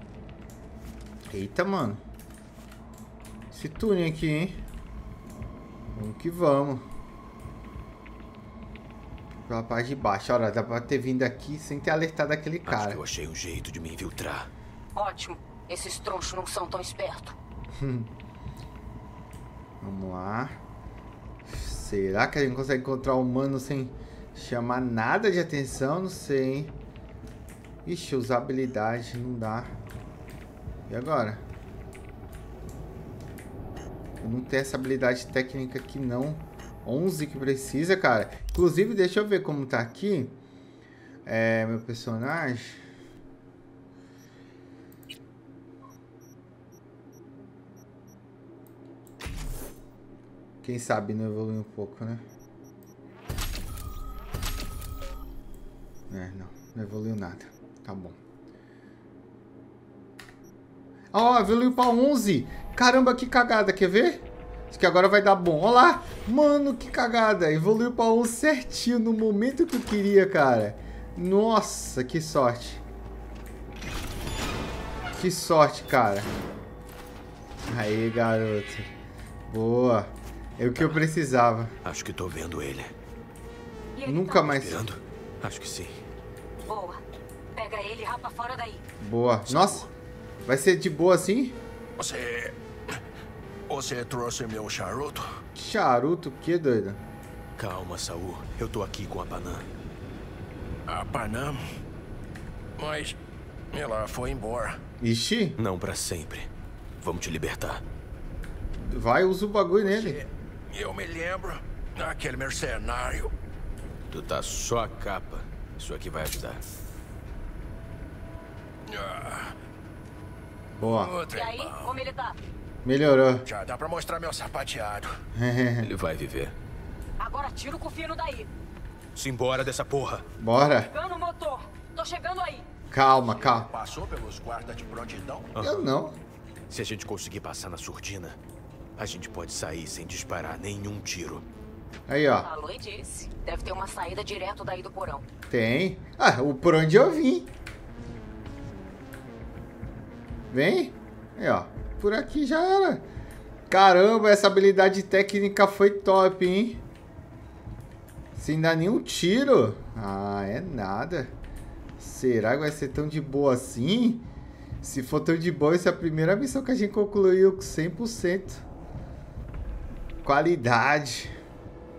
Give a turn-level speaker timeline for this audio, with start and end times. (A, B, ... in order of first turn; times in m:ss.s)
0:01.3-0:02.0 A
0:03.5-0:04.6 A
0:05.9-0:06.8 A
0:09.5-0:13.0 A
0:12.6-0:14.5 B
0:14.9-0:17.3 C
0:17.8-0:18.1 A
0:19.8-0:20.6 A
0:21.4-0:26.7 A
0:27.8-0:29.7 A
0:30.9-0:31.4 A
0:34.2-0:40.4 A
0:41.2-0:42.8 A
0:50.6-0:52.2 A
0:56.1-0:58.2 A
1:01.1-1:12.8 A
1:15.2-1:16.3 A
1:17.7-1:18.9 A
1:19.5-1:21.7 A
1:21.8-1:22.9 B
1:23.9-1:24.5 C
1:24.0-1:24.8 A
1:24.4-1:26.0 B
1:26.6-1:27.0 C
1:27.5-1:28.8 C
1:29.0-1:29.8 A
1:29.5-1:29.9 B
1:30.5-1:31.6 A
1:32.0-1:32.5 D
1:33.7-1:35.3 D
1:35.6-1:37.0 A
1:37.6-1:39.6 B
1:40.9-1:41.6 D
1:42.8-1:43.2 D
1:43.7-1:44.8 D
1:45.0-1:45.5 A
1:45.6-1:46.5 B
1:47.0-1:47.8 B
1:48.8-1:50.2 A
1:49.8-1:53.3 D
1:54.1-1:56.6 B
1:58.9-1:59.5 D
2:00.8-2:01.1 A
2:00.9-2:02.0 D
2:01.3-2:02.4 C
2:02.8-2:03.5 A
2:03.4-2:05.1 D
2:05.3-2:05.9 A
2:05.8-2:06.5 B
2:07.2-2:08.5 C
2:09.2-2:10.2 B
2:10.4-2:10.9 A
2:10.8-2:12.7 C
2:12.9-2:13.7 A
2:13.1-2:15.5 D
2:15.5-2:15.9 B
2:15.6-2:16.2 A
2:16.7-2:18.4 B
2:19.0-2:21.4 B
2:22.1-2:22.5 A
2:22.4-2:25.2 C
2:25.5-2:27.5 A
2:30.5-2:33.0 A
2:33.7-2:36.8 A
2:38.4-2:41.3 A
2:42.0-2:44.2 A
2:44.8-2:48.6 A
2:50.2-2:51.3 A